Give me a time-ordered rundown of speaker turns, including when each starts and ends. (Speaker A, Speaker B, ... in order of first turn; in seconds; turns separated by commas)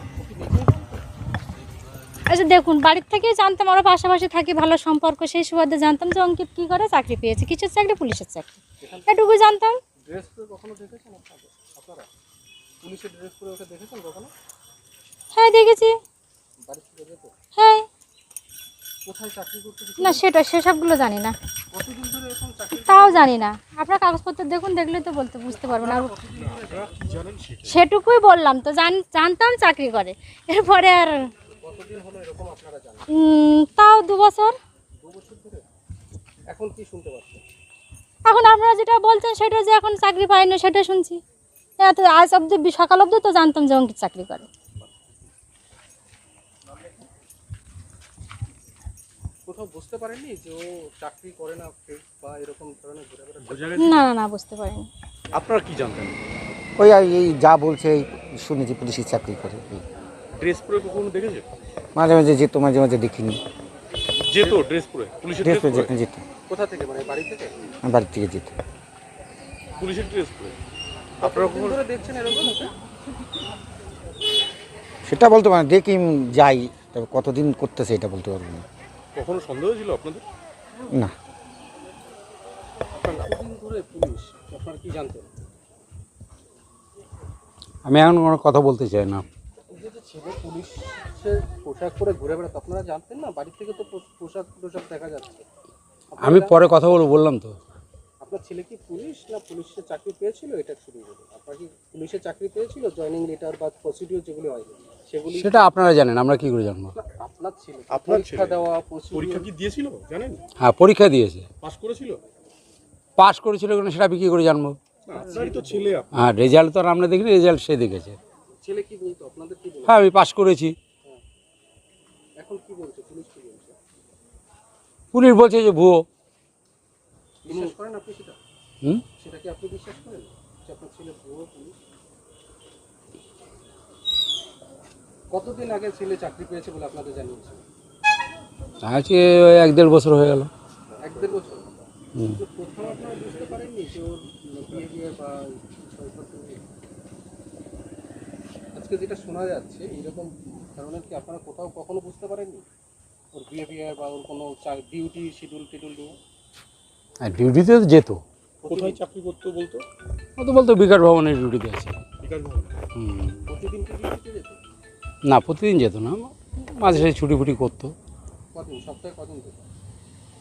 Speaker A: 0.2-0.9, Speaker B: 2.3-9.8, Speaker A: 8.8-9.4, Speaker A: 10.0-12.1, Speaker A: 12.8-14.3, Speaker B: 15.3-15.9, Speaker A: 16.6-17.3, Speaker B: 17.5-17.8, Speaker A: 19.1-20.2, Speaker B: 20.0-21.4, Speaker A: 21.7-23.4, Speaker B: 22.8-26.1, Speaker A: 25.5-27.0, Speaker C: 26.4-27.8, Speaker B: 27.6-31.2, Speaker A: 31.6-33.1, Speaker B: 33.1-34.5, Speaker A: 35.0-35.6, Speaker A: 36.5-37.4, Speaker B: 38.2-41.2, Speaker B: 41.8-44.5, Speaker A: 49.5-53.9, Speaker C: 53.4-54.0, Speaker B: 53.8-54.9, Speaker C: 55.3-56.2, Speaker D: 56.8-59.8, Speaker C: 60.3-61.5, Speaker D: 62.0-63.4, Speaker C: 64.2-65.9, Speaker A: 64.4-64.7, Speaker D: 65.4-66.2, Speaker A: 66.5-67.7, Speaker D: 67.8-68.5, Speaker C: 69.8-70.6, Speaker C: 71.2-71.8, Speaker A: 71.2-72.7, Speaker D: 75.1-78.7, Speaker C: 79.1-80.2, Speaker A: 83.0-85.3, Speaker E: 87.8-89.2, Speaker A: 89.7-95.5, Speaker A: 96.1-96.6, Speaker E: 96.2-97.5, Speaker A: 98.2-105.7, Speaker E: 105.3-106.9, Speaker A: 106.9-109.5, Speaker C: 107.9-110.4, Speaker E: 110.6-111.5, Speaker C: 111.6-112.2, Speaker E: 113.2-114.8, Speaker C: 115.1-116.1, Speaker A: 115.1-116.0, Speaker E: 116.1-118.2, Speaker A: 118.6-120.1, Speaker E: 119.9-120.7, Speaker A: 122.4-123.8, Speaker E: 125.1-126.0, Speaker A: 127.4-128.4, Speaker A: 129.2-131.8, Speaker A: 135.3-137.6, Speaker E: 138.8-140.5, Speaker A: 141.0-146.6, Speaker A: 148.7-152.7, Speaker A: 153.3-156.2, Speaker E: 157.2-158.2, Speaker A: 158.6-159.0, Speaker C: 158.7-159.9, Speaker E: 160.4-162.0, Speaker C: 162.2-162.8, Speaker E: 162.9-163.3, Speaker A: 163.5-164.6, Speaker E: 165.3-167.9, Speaker A: 168.6-169.7